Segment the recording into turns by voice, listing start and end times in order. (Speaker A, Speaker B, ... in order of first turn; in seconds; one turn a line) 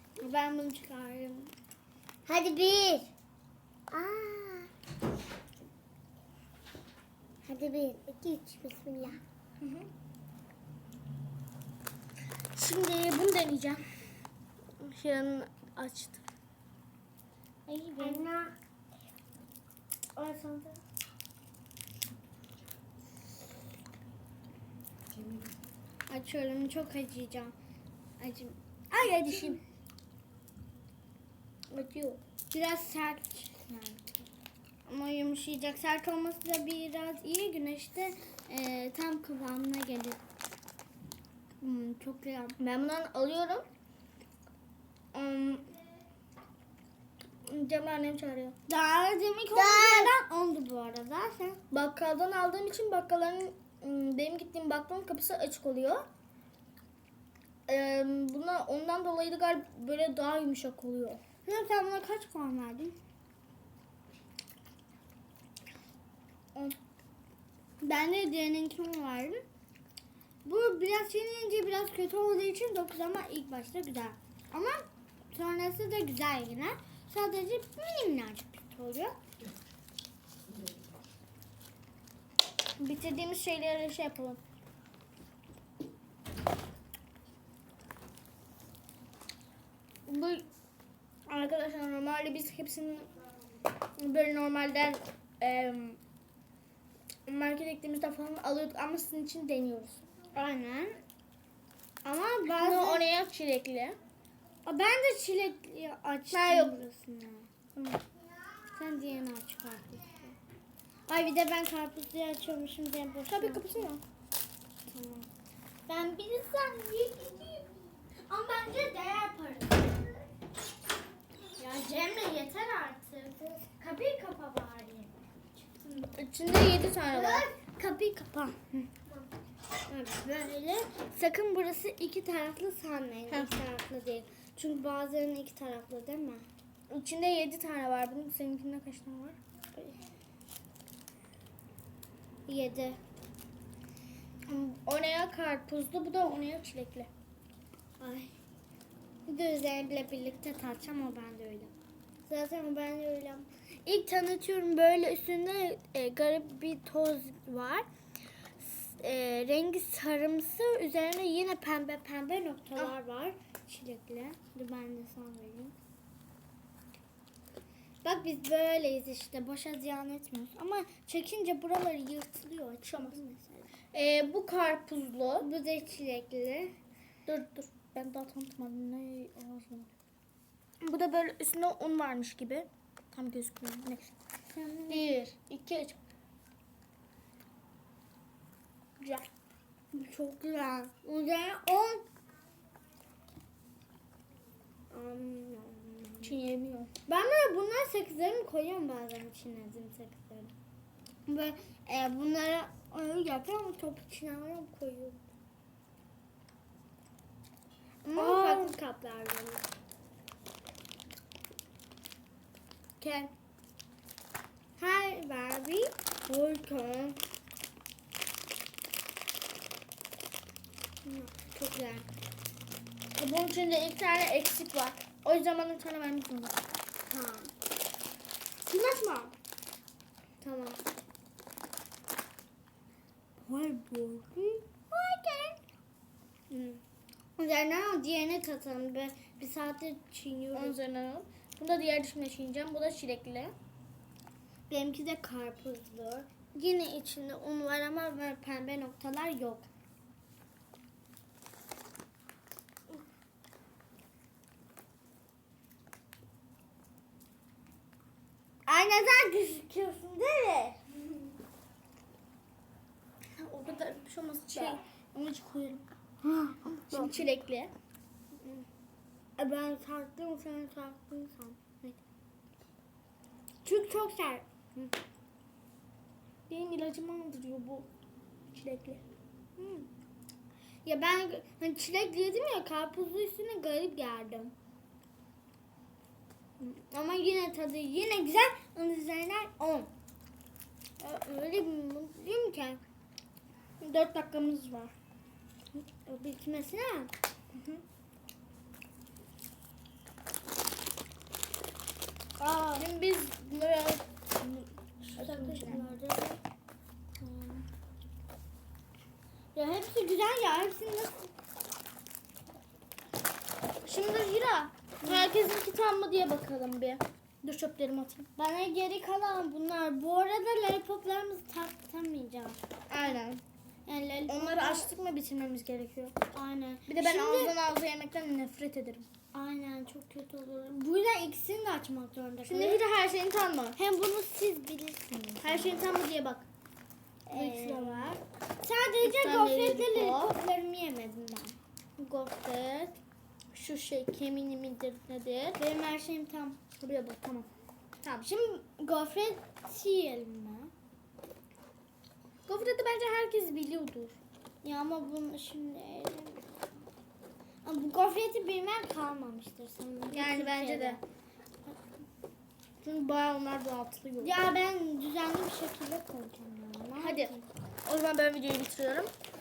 Speaker A: 0.2-1.5
Speaker B: 2.3-3.1
Speaker B: 3.9-4.7
Speaker B: 7.5-9.2
Speaker A: 9.6-9.9
Speaker A: 12.6-13.8
Speaker A: 14.8-16.2
Speaker C: 17.7-18.3
Speaker B: 18.0-18.6
Speaker C: 20.2-20.8
Speaker C: 26.1-27.6
Speaker C: 28.2-29.6
Speaker A: 29.0-29.6
Speaker A: 31.7-32.2
Speaker C: 32.5-34.3
Speaker C: 34.9-40.2
Speaker C: 41.6-42.6
Speaker A: 42.6-43.7
Speaker A: 45.1-45.7
Speaker A: 47.5-48.6
Speaker C: 48.7-51.6
Speaker B: 49.5-50.1
Speaker A: 51.7-56.1
Speaker A: 57.7-61.2
Speaker C: 61.5-63.0
Speaker C: 67.8-69.4
Speaker C: 70.5-79.2
Speaker A: 82.8-84.4
Speaker A: 90.1-90.5
Speaker A: 91.3-93.1
Speaker A: 94.0-96.0
Speaker A: 97.3-100.0
Speaker C: 100.3-101.0
Speaker C: 102.0-103.1
Speaker A: 102.5-104.0
Speaker C: 104.7-107.5
Speaker A: 106.3-106.8
Speaker A: 107.8-108.0
Speaker C: 108.7-110.4
Speaker C: 111.1-113.9
Speaker A: 113.3-114.0
Speaker C: 114.9-115.3
Speaker C: 115.9-120.3
Speaker C: 121.6-126.2
Speaker A: 126.2-127.5
Speaker C: 127.1-129.2
Speaker C: 129.9-136.5
Speaker A: 133.3-133.6
Speaker A: 136.9-139.4
Speaker C: 142.5-143.0
Speaker A: 144.5-147.1
Speaker C: 148.0-148.3
Speaker C: 149.3-151.7
Speaker C: 152.2-157.9
Speaker C: 158.6-165.8
Speaker C: 168.0-173.7
Speaker A: 172.8-173.2
Speaker A: 173.9-175.5
Speaker C: 175.4-176.7
Speaker A: 177.3-179.9
Speaker A: 180.8-184.1
Speaker C: 184.5-185.2
Speaker A: 184.9-186.0
Speaker A: 189.0-189.3
Speaker C: 189.9-192.1
Speaker C: 194.9-196.4
Speaker A: 196.2-196.9
Speaker C: 197.1-200.5
Speaker C: 201.3-205.2
Speaker C: 208.1-209.7
Speaker A: 208.2-208.8
Speaker A: 213.0-213.3
Speaker C: 214.8-217.2
Speaker C: 221.1-222.1
Speaker A: 223.2-226.6
Speaker C: 227.1-227.5
Speaker C: 228.7-229.3
Speaker C: 230.4-230.8
Speaker C: 233.4-235.6
Speaker C: 236.5-236.8
Speaker C: 237.4-240.8
Speaker A: 240.5-243.6
Speaker C: 244.7-249.7
Speaker C: 258.7-260.8
Speaker A: 263.4-265.8
Speaker C: 264.5-264.8
Speaker C: 266.2-267.2
Speaker A: 266.9-267.7
Speaker C: 268.4-268.6
Speaker C: 269.4-272.0
Speaker C: 273.6-274.9
Speaker A: 276.5-277.9
Speaker A: 278.5-279.0
Speaker C: 279.6-279.9
Speaker C: 280.9-284.5
Speaker C: 286.6-289.9
Speaker C: 291.0-292.8
Speaker A: 293.8-294.9
Speaker C: 295.7-297.1
Speaker A: 297.5-297.8
Speaker C: 302.4-302.9
Speaker A: 302.8-305.9
Speaker C: 305.2-306.4
Speaker C: 307.2-307.6
Speaker C: 309.6-311.3
Speaker A: 313.9-318.3
Speaker C: 315.0-315.4
Speaker C: 318.4-322.6
Speaker A: 322.9-323.4
Speaker C: 323.9-324.9
Speaker A: 324.3-326.2
Speaker C: 326.3-327.6
Speaker A: 326.9-329.1
Speaker C: 329.3-332.8
Speaker A: 332.4-333.8
Speaker C: 333.8-335.9
Speaker A: 335.4-336.5
Speaker C: 337.3-341.6
Speaker A: 337.3-338.2
Speaker A: 339.0-340.4
Speaker A: 342.0-343.0
Speaker A: 343.5-345.6
Speaker C: 345.6-347.4
Speaker A: 346.8-347.5
Speaker C: 348.1-350.7
Speaker A: 352.5-354.2
Speaker C: 354.6-356.6
Speaker C: 357.6-361.0
Speaker A: 360.1-361.0
Speaker A: 362.8-364.3
Speaker C: 364.2-367.5
Speaker A: 367.0-367.3
Speaker A: 367.9-369.1